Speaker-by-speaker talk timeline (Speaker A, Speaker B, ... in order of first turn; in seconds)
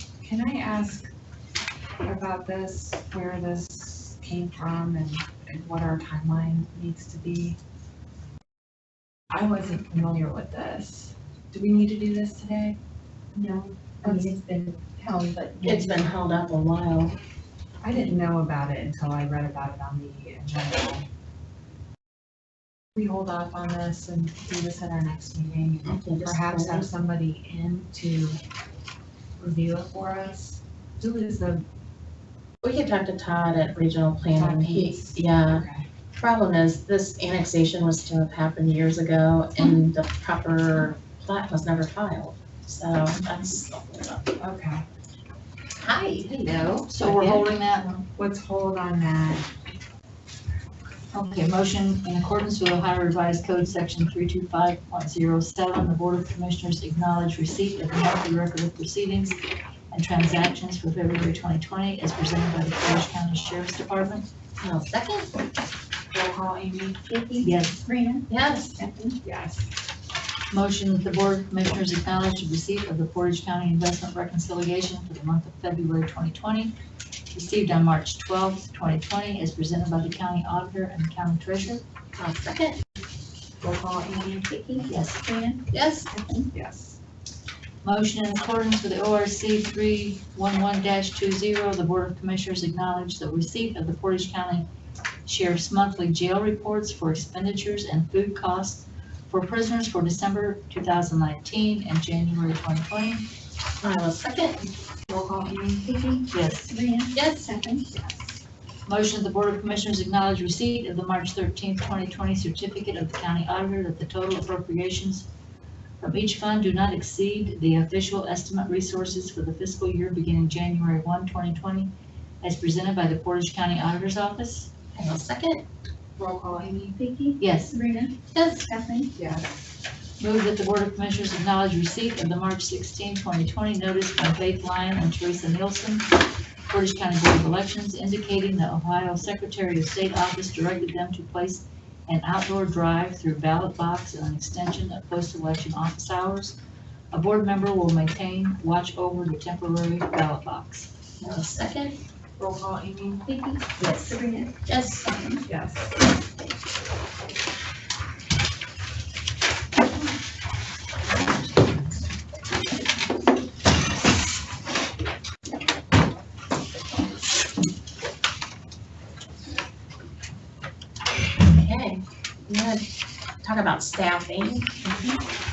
Speaker A: 0.2-1.1, 2.0-7.6, 9.3-12.8, 13.3-16.0, 17.8-21.1, 22.9-28.4, 29.4-31.6, 34.3-35.9, 44.4-44.9, 46.6-47.5, 48.1-49.5, 66.1-67.0, 69.2-69.6, 83.6-84.5, 86.5-87.0, 105.1-106.0, 126.2-127.0, 129.2-129.6, 152.4-153.3, 155.5-156.0
Speaker B: 15.6-17.2, 25.9-26.9, 32.6-35.6, 36.2-44.3, 45.8-46.9, 64.6-65.3, 68.3-68.8, 82.2-82.8, 85.7-86.1, 103.8-104.6, 107.2-107.5, 125.0-125.6, 128.3-128.7, 151.2-152.0, 153.8-155.2, 171.5-172.8, 173.4-174.9
Speaker C: 46.9-47.9, 51.1-59.4, 59.9-64.3, 67.4-67.9, 70.5-76.7, 77.3-81.8, 87.8-94.7, 95.3-103.3, 106.3-106.8, 108.9-115.3, 116.0-121.9, 122.4-124.7, 127.4-127.8, 130.2-136.1, 136.7-146.6, 147.1-150.9
Speaker D: 67.1-69.2, 84.5-86.5, 105.9-107.9, 127.0-129.1, 153.3-154.6, 155.1-155.4